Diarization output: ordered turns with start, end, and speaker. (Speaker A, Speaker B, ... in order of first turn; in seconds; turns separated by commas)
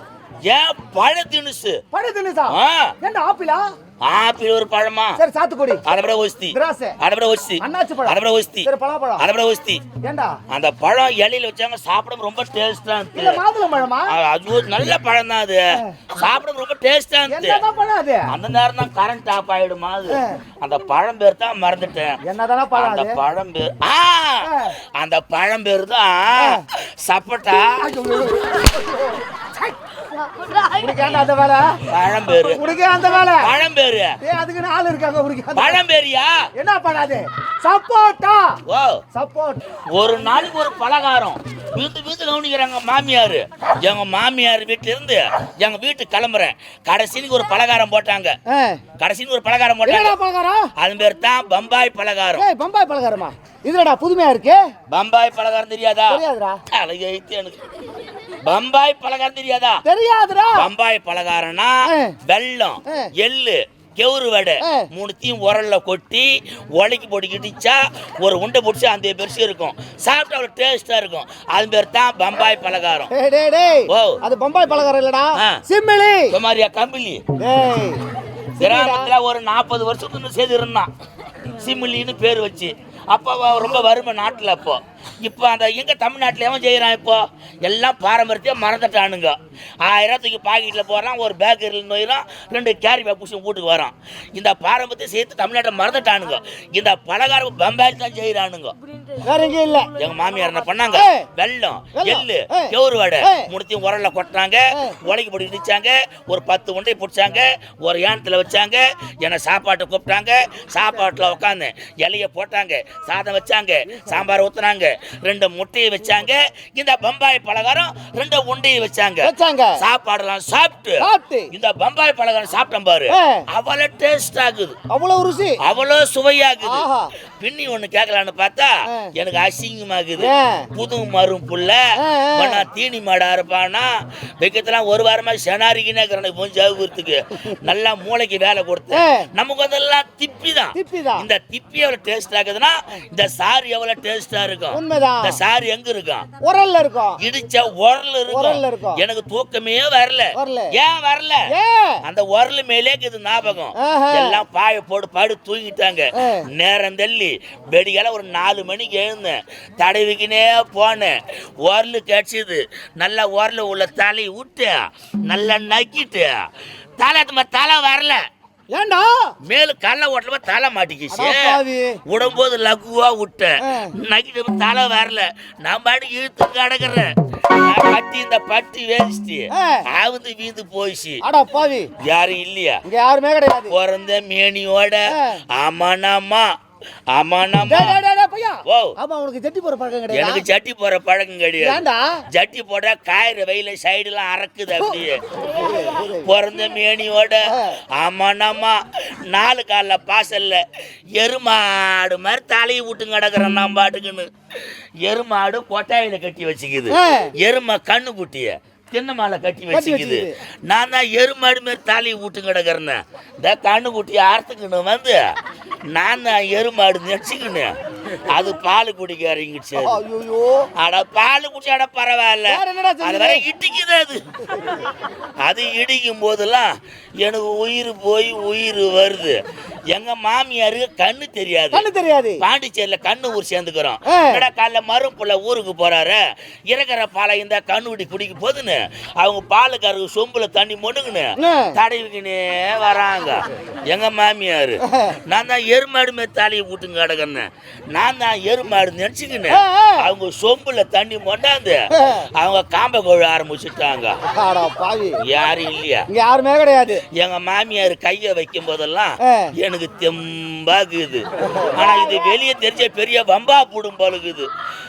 Speaker A: 0.4-1.8, Speaker B: 1.9-3.6, Speaker A: 2.5-2.9, Speaker A: 4.0-5.2, Speaker B: 5.2-5.8, Speaker A: 5.8-9.8, Speaker B: 6.5-7.0, Speaker B: 7.6-9.3, Speaker B: 10.0-10.4, Speaker A: 10.5-13.4, Speaker B: 13.1-14.1, Speaker A: 14.1-17.6, Speaker B: 17.3-18.3, Speaker A: 18.3-22.2, Speaker B: 20.1-20.4, Speaker B: 22.2-23.2, Speaker A: 22.7-27.8, Speaker B: 24.4-24.7, Speaker B: 26.4-26.6, Speaker B: 27.6-29.7, Speaker B: 30.7-31.8, Speaker A: 31.9-32.6, Speaker B: 32.5-33.5, Speaker A: 33.4-34.1, Speaker B: 34.2-35.8, Speaker A: 35.5-36.4, Speaker B: 36.6-38.6, Speaker A: 38.7-39.0, Speaker B: 39.1-39.6, Speaker A: 39.9-48.4, Speaker B: 48.5-48.8, Speaker A: 49.0-50.1, Speaker B: 49.9-50.7, Speaker A: 50.8-52.5, Speaker B: 52.4-54.7, Speaker A: 54.9-57.6, Speaker B: 56.1-56.6, Speaker A: 58.4-59.8, Speaker B: 59.8-60.7, Speaker A: 60.5-73.1, Speaker B: 61.9-62.2, Speaker B: 64.6-64.9, Speaker B: 73.1-76.3, Speaker A: 73.9-74.2, Speaker A: 76.3-77.2, Speaker B: 77.4-78.0, Speaker B: 78.6-79.1, Speaker A: 78.6-80.9, Speaker A: 81.5-98.7, Speaker B: 99.2-99.9, Speaker A: 100.0-124.8, Speaker B: 100.9-101.3, Speaker B: 101.9-103.5, Speaker B: 104.7-105.0, Speaker B: 113.9-114.2, Speaker B: 119.2-119.8, Speaker B: 121.0-121.5, Speaker B: 123.1-123.5, Speaker B: 124.9-125.6, Speaker A: 125.6-126.9, Speaker B: 126.6-127.1, Speaker A: 127.4-131.8, Speaker B: 128.9-129.1, Speaker B: 130.2-130.7, Speaker B: 132.0-132.6, Speaker A: 132.3-146.3, Speaker B: 138.9-139.3, Speaker B: 140.7-141.3, Speaker B: 144.7-145.4, Speaker B: 146.4-147.2, Speaker A: 147.2-151.4, Speaker B: 148.3-149.0, Speaker B: 150.3-150.8, Speaker B: 151.5-152.0, Speaker A: 152.0-166.5, Speaker B: 153.8-154.4, Speaker B: 156.1-156.4, Speaker A: 167.0-168.2, Speaker B: 168.7-169.3, Speaker A: 169.4-171.5, Speaker B: 171.1-172.0, Speaker A: 172.1-181.2, Speaker B: 173.6-173.9, Speaker B: 179.5-179.8, Speaker B: 181.2-181.9, Speaker A: 182.0-182.8, Speaker B: 182.8-183.7, Speaker A: 183.7-186.5, Speaker B: 185.1-185.4, Speaker A: 187.1-188.0, Speaker B: 187.6-190.4, Speaker A: 188.7-188.9, Speaker A: 190.1-200.6, Speaker B: 191.6-192.2, Speaker B: 194.7-196.3, Speaker B: 197.5-197.8, Speaker A: 201.2-215.3, Speaker B: 206.9-207.3, Speaker B: 209.7-210.3, Speaker A: 215.9-220.0, Speaker B: 219.8-220.7, Speaker A: 220.8-224.2, Speaker B: 222.5-223.4, Speaker A: 225.4-229.4, Speaker A: 229.9-231.9, Speaker B: 231.7-232.4, Speaker A: 232.4-254.2, Speaker B: 234.1-234.4, Speaker B: 241.3-241.8, Speaker B: 244.8-245.2, Speaker B: 249.5-250.1, Speaker B: 251.9-252.3, Speaker B: 254.3-255.2, Speaker A: 255.2-256.1, Speaker B: 256.1-257.0, Speaker A: 257.1-264.5, Speaker B: 259.2-259.5, Speaker B: 261.4-262.3